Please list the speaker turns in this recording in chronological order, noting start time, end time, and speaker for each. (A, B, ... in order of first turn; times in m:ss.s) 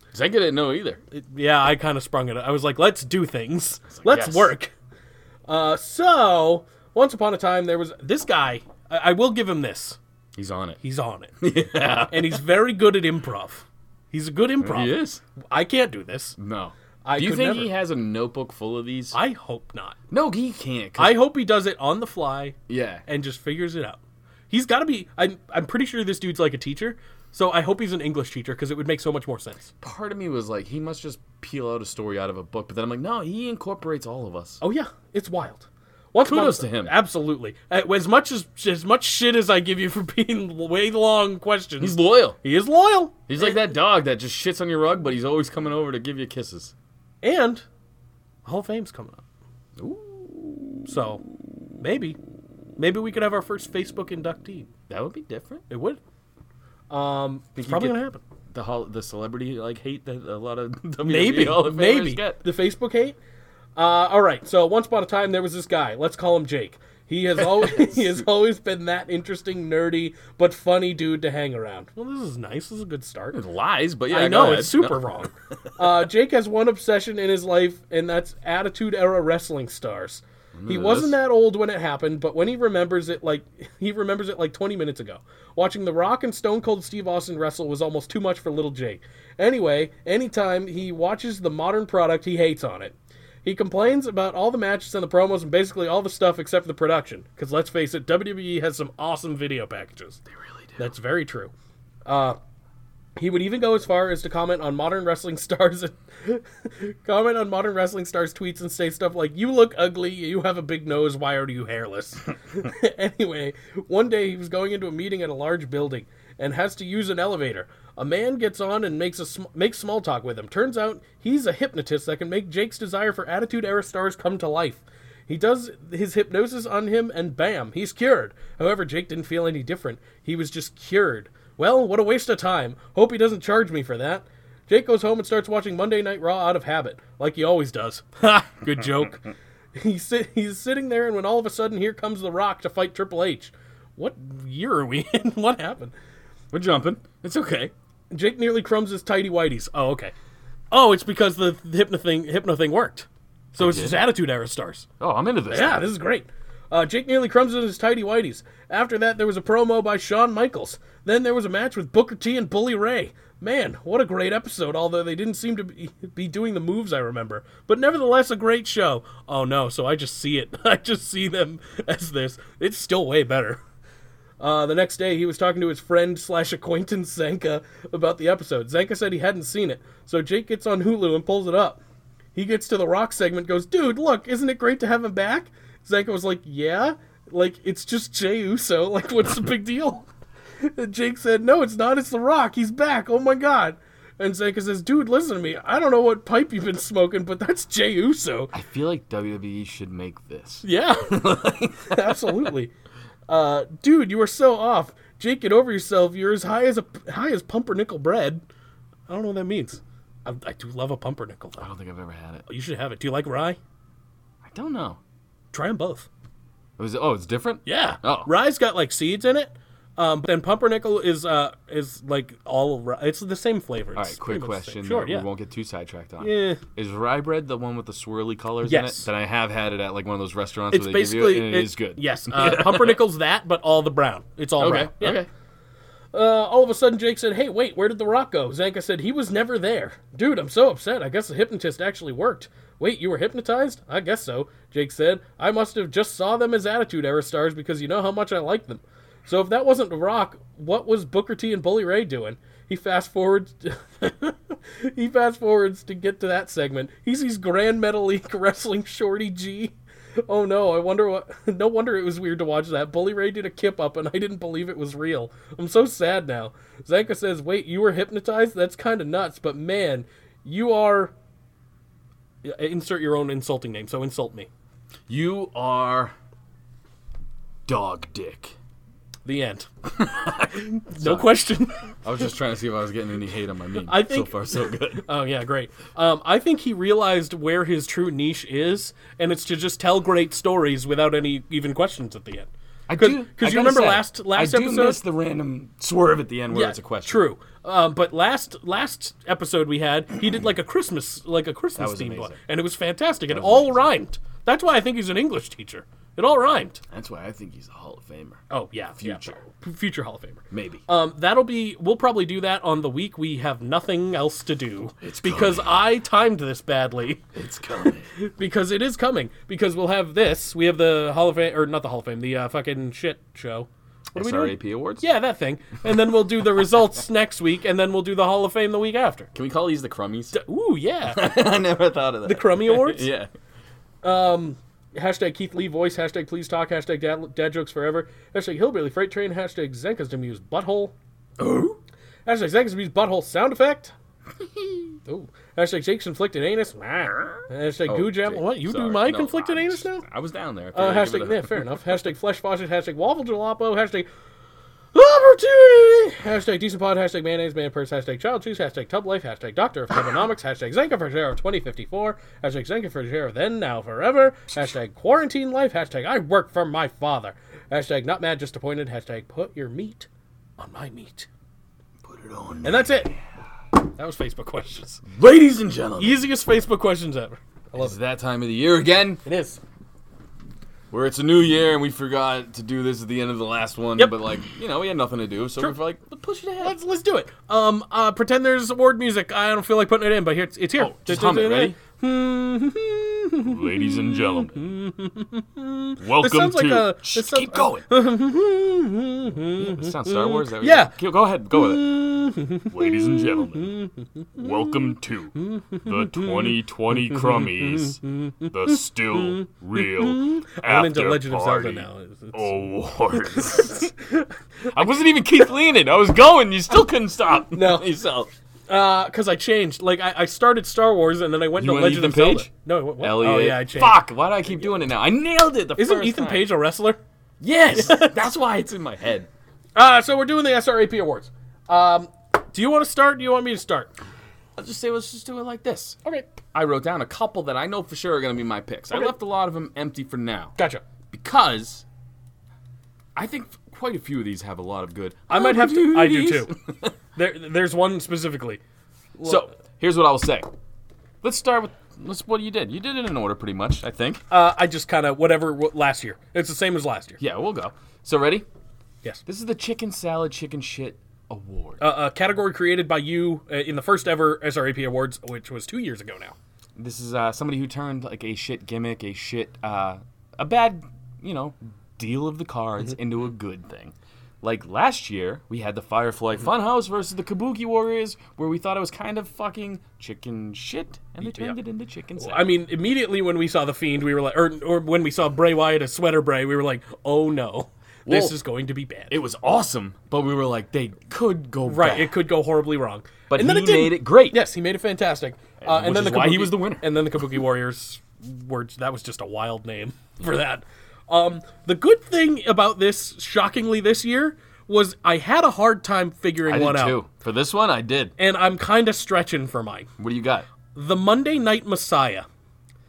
0:00.1-0:01.0 A
0:01.1-0:04.7 B
0:03.9-0:04.5 A
0:05.5-0:10.0 B
0:10.3-0:10.8 A
0:10.8-0:11.3 B
0:11.4-0:12.4 A
0:12.1-0:16.4 B
0:14.6-0:15.2 A
0:16.4-0:19.2 A
0:17.0-0:17.7 B
0:19.1-0:20.0 B
0:20.1-0:21.2 A
0:21.0-0:29.7 B
0:22.7-0:23.0 A
0:29.8-0:34.6 A
0:34.6-0:43.3 B
0:36.2-0:36.9 A
0:41.8-0:42.4 A
0:43.3-0:46.7 A
0:47.2-0:47.6 B
0:48.4-0:49.2 B
0:49.8-0:50.9 A
0:50.9-0:51.2 B
0:51.8-0:52.2 B
0:52.8-0:54.7 B
0:54.9-0:55.6 A
0:55.7-0:56.0 B
0:56.9-0:58.2 B
0:57.6-0:58.0 A
0:58.5-1:02.4 A
1:01.0-1:03.2 B
1:03.8-1:13.4 B
1:07.4-1:08.2 A
1:13.3-1:15.3 A
1:14.1-1:40.2 B
1:20.5-1:21.2 A
1:40.3-1:40.8 A
1:40.8-1:41.5 B
1:42.0-1:42.4 B
1:43.2-2:25.9 B
2:26.5-2:27.7 A
2:28.1-2:30.1 B
2:30.7-2:34.8 B
2:33.6-2:34.0 A
2:35.0-2:35.9 A
2:35.5-2:53.6 B
2:54.4-3:01.8 B
3:02.3-3:10.1 B
3:10.6-3:18.5 B
3:18.5-3:22.5 A
3:20.6-3:21.2 B
3:21.9-3:22.7 B
3:23.3-3:28.4 B
3:29.1-3:31.7 B
3:31.6-3:32.4 A
3:32.5-3:33.6 B
3:34.4-3:35.0 A
3:35.5-3:36.1 B
3:36.8-3:38.3 A
3:37.6-3:45.2 B
3:43.9-3:53.0 A
3:46.2-3:46.6 B
3:48.6-3:49.1 B
3:50.7-3:55.2 B
3:54.6-3:55.3 A
3:56.1-4:19.7 B
4:20.2-4:31.1 B
4:32.4-4:34.5 B
4:35.1-4:36.1 A
4:37.7-4:38.5 A
4:39.2-4:39.7 B
4:39.9-4:41.3 A
4:40.5-4:41.9 B
4:42.0-4:45.0 A
4:43.8-4:55.0 B
4:52.9-4:57.2 A
4:56.5-5:06.8 B
5:01.8-5:02.4 A
5:03.3-5:03.8 A
5:06.9-5:08.4 A
5:08.5-5:17.2 B
5:09.0-5:09.4 A
5:10.5-5:10.8 A
5:15.0-5:15.8 A
5:17.3-5:18.1 A
5:18.1-5:29.3 B
5:24.1-5:25.1 A
5:29.3-5:30.4 A
5:30.3-5:31.4 B
5:31.0-5:33.3 A
5:32.2-5:33.1 B
5:34.0-5:40.9 B
5:41.4-5:41.8 A
5:42.2-5:43.9 B
5:44.6-5:44.8 A
5:45.0-5:50.0 B
5:47.8-5:51.7 A
5:50.7-5:54.1 B
5:54.9-6:11.3 B
6:12.0-6:13.2 A
6:12.6-6:13.1 B
6:13.8-6:15.0 B
6:15.0-6:16.2 A
6:16.0-6:18.0 B
6:17.7-6:19.2 A
6:19.2-6:19.6 B
6:20.9-6:26.8 A
6:26.6-6:41.0 B
6:30.8-6:31.8 A
6:33.4-6:34.8 A
6:36.0-6:37.9 A
6:39.6-6:42.0 A
6:41.5-6:44.8 B
6:42.7-6:43.8 A
6:44.4-6:53.9 A
6:45.3-6:54.3 B
6:54.7-6:58.3 A
6:57.5-6:57.9 B
6:58.7-7:04.0 B
7:01.6-7:06.5 A
7:05.8-7:07.0 B
7:07.4-7:09.3 A
7:07.7-7:08.3 B
7:09.8-7:13.9 B
7:14.6-7:16.0 A
7:16.5-7:20.5 A
7:20.6-7:20.8 B
7:21.1-7:21.8 A
7:23.1-7:26.9 A
7:25.3-7:26.5 B
7:27.1-7:28.6 B
7:29.2-7:29.5 B
7:29.2-7:30.5 A
7:31.2-7:34.2 A
7:34.3-7:37.2 B
7:37.2-7:38.4 A
7:39.2-7:41.8 A
7:41.8-7:46.3 B
7:46.8-8:02.5 A
8:01.2-8:01.5 B
8:02.2-8:09.1 B
8:08.0-8:08.4 A
8:09.1-8:12.2 A
8:11.6-8:27.0 B
8:13.3-8:14.4 A
8:15.6-8:16.9 A
8:26.4-8:28.1 A
8:28.2-8:29.9 B
8:30.0-8:30.5 A
8:30.7-8:32.2 B